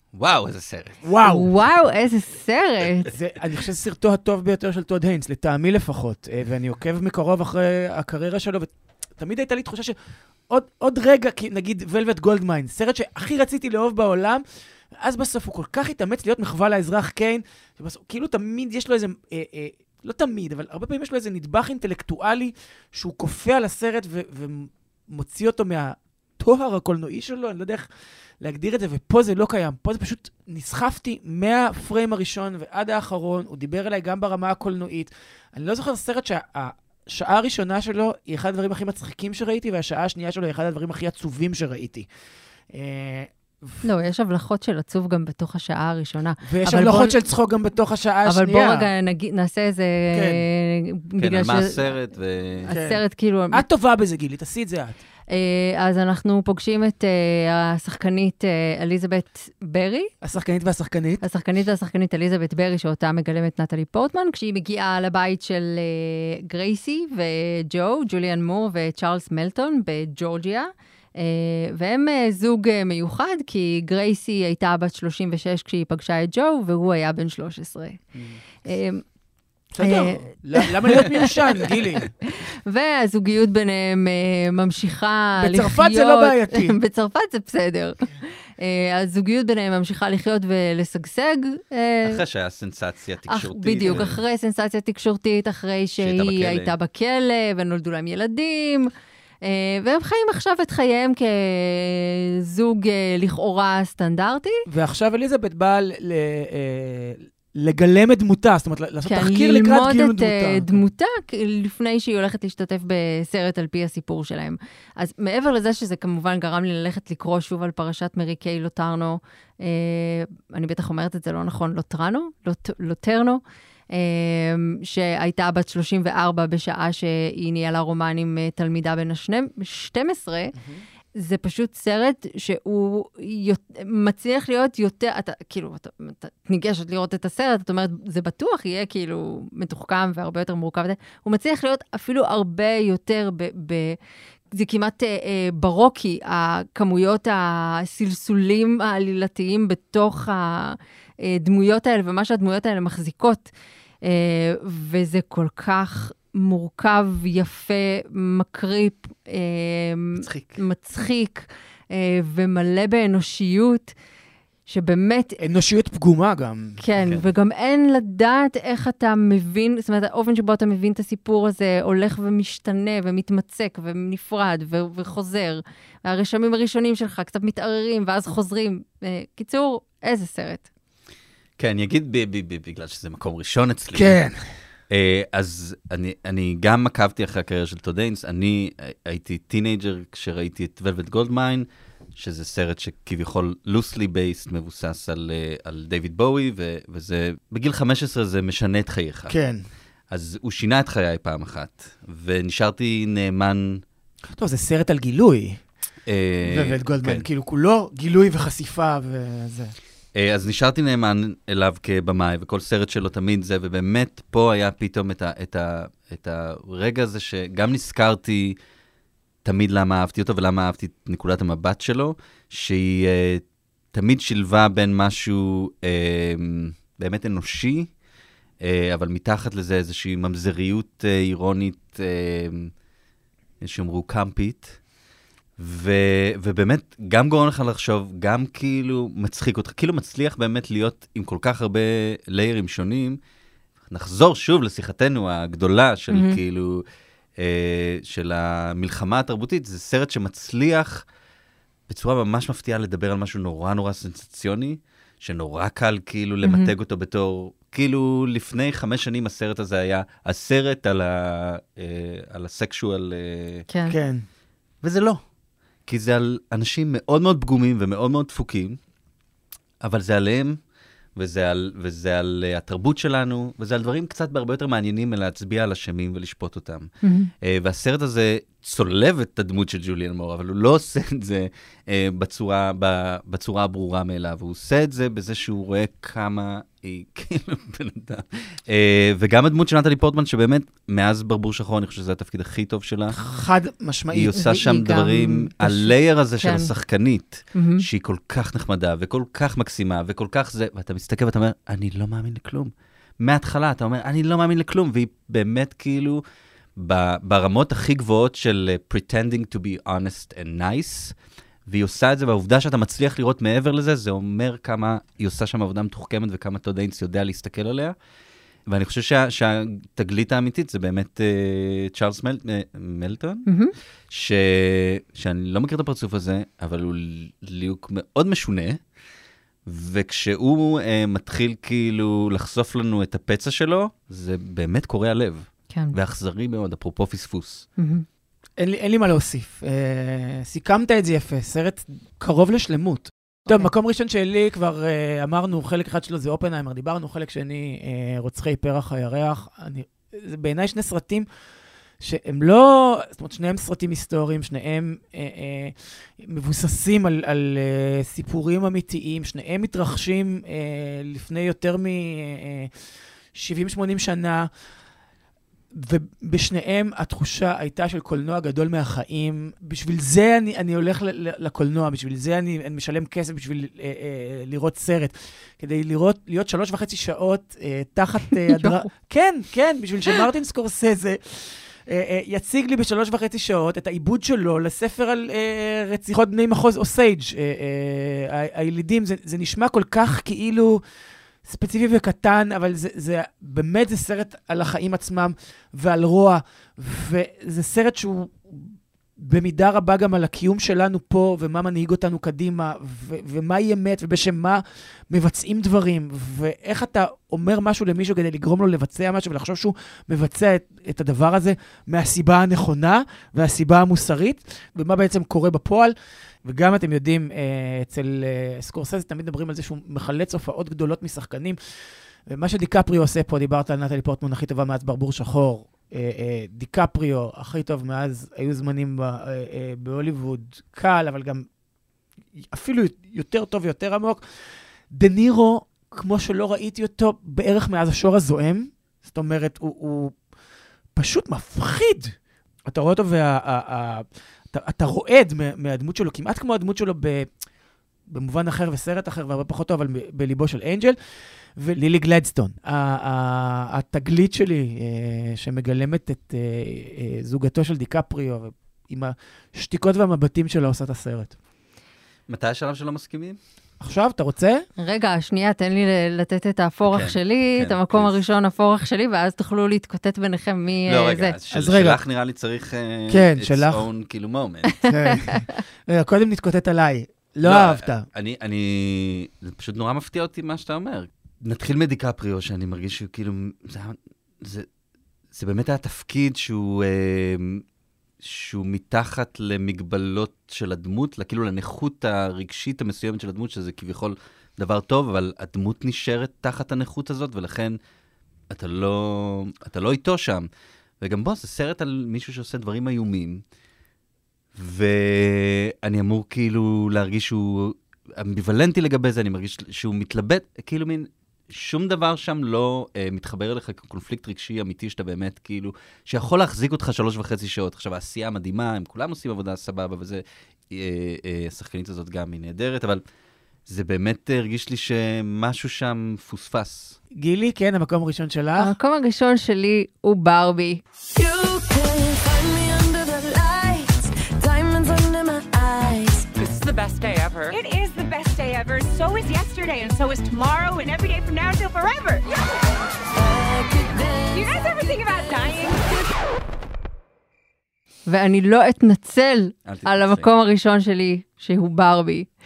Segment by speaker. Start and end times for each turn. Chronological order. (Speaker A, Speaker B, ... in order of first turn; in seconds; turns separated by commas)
Speaker A: 0.1-1.0, Speaker B: 1.0-1.5, Speaker C: 1.2-3.1, Speaker B: 3.1-10.0, Speaker B: 10.5-27.9, Speaker B: 28.4-42.1, Speaker B: 42.7-43.8, Speaker C: 43.8-47.2, Speaker B: 46.4-48.9, Speaker C: 48.3-52.0, Speaker B: 50.1-50.4, Speaker A: 51.2-52.7, Speaker C: 52.7-53.6, Speaker B: 52.7-55.0, Speaker C: 55.3-60.1, Speaker B: 60.2-61.2, Speaker C: 61.2-78.0, Speaker C: 78.7-79.0, Speaker B: 79.7-82.1, Speaker C: 79.8-81.6, Speaker C: 82.4-92.2, Speaker B: 85.4-86.8, Speaker A: 92.0-94.2, Speaker C: 93.3-98.9, Speaker B: 93.8-94.1, Speaker A: 96.0-96.7, Speaker C: 99.4-104.6, Speaker B: 104.7-110.8, Speaker C: 109.0-123.4, Speaker C: 123.9-130.6, Speaker B: 130.6-130.8, Speaker C: 131.2-144.0, Speaker C: 144.6-153.5, Speaker C: 154.0-163.9, Speaker A: 160.2-160.6, Speaker C: 164.7-165.4, Speaker B: 165.4-166.8, Speaker C: 166.8-180.7, Speaker A: 181.6-184.2, Speaker B: 183.9-184.4, Speaker A: 184.9-199.4, Speaker B: 199.3-199.6, Speaker A: 200.1-203.8, Speaker B: 204.3-205.6, Speaker A: 206.1-207.3, Speaker B: 206.4-209.8, Speaker A: 210.2-218.6, Speaker A: 219.4-227.9, Speaker A: 228.6-232.7, Speaker A: 233.6-234.8, Speaker A: 235.6-243.2, Speaker A: 243.9-246.8, Speaker C: 246.1-246.4, Speaker A: 247.4-251.0, Speaker A: 251.9-263.6, Speaker C: 256.4-256.7, Speaker C: 263.7-264.0, Speaker B: 263.9-264.2, Speaker A: 264.8-265.2, Speaker A: 265.9-268.8, Speaker A: 269.8-270.6, Speaker A: 271.2-276.9, Speaker C: 277.0-277.3, Speaker A: 277.4-293.2, Speaker B: 293.1-294.5, Speaker A: 294.1-306.2, Speaker C: 294.4-296.7, Speaker C: 297.6-297.8, Speaker A: 306.8-311.1, Speaker A: 311.7-317.9, Speaker A: 318.7-323.5, Speaker C: 323.5-323.7, Speaker A: 324.1-328.8, Speaker A: 329.7-337.7, Speaker C: 337.8-338.1, Speaker B: 338.6-351.3, Speaker B: 352.0-362.7, Speaker B: 363.3-364.5, Speaker B: 365.7-390.8, Speaker C: 378.5-378.9, Speaker B: 391.4-421.6, Speaker B: 422.3-431.5, Speaker B: 432.4-434.2, Speaker B: 434.9-440.2, Speaker B: 440.9-442.1, Speaker B: 442.7-447.3, Speaker B: 448.1-451.0, Speaker B: 451.6-461.4, Speaker A: 462.3-463.4, Speaker B: 463.8-464.6, Speaker C: 464.8-471.3, Speaker A: 466.9-468.2, Speaker A: 470.9-474.8, Speaker B: 471.5-472.0, Speaker B: 473.1-473.9, Speaker B: 474.9-478.1, Speaker C: 475.1-475.5, Speaker A: 477.4-484.7, Speaker A: 485.3-487.6, Speaker A: 488.2-497.8, Speaker A: 498.5-500.5, Speaker A: 501.0-503.4, Speaker A: 504.6-523.0, Speaker A: 523.7-527.0, Speaker B: 527.2-528.7, Speaker C: 528.6-530.8, Speaker D: 531.2-536.4, Speaker E: 536.4-542.3, Speaker D: 543.1-546.0, Speaker E: 544.3-546.0, Speaker C: 548.1-552.3, Speaker A: 549.7-550.3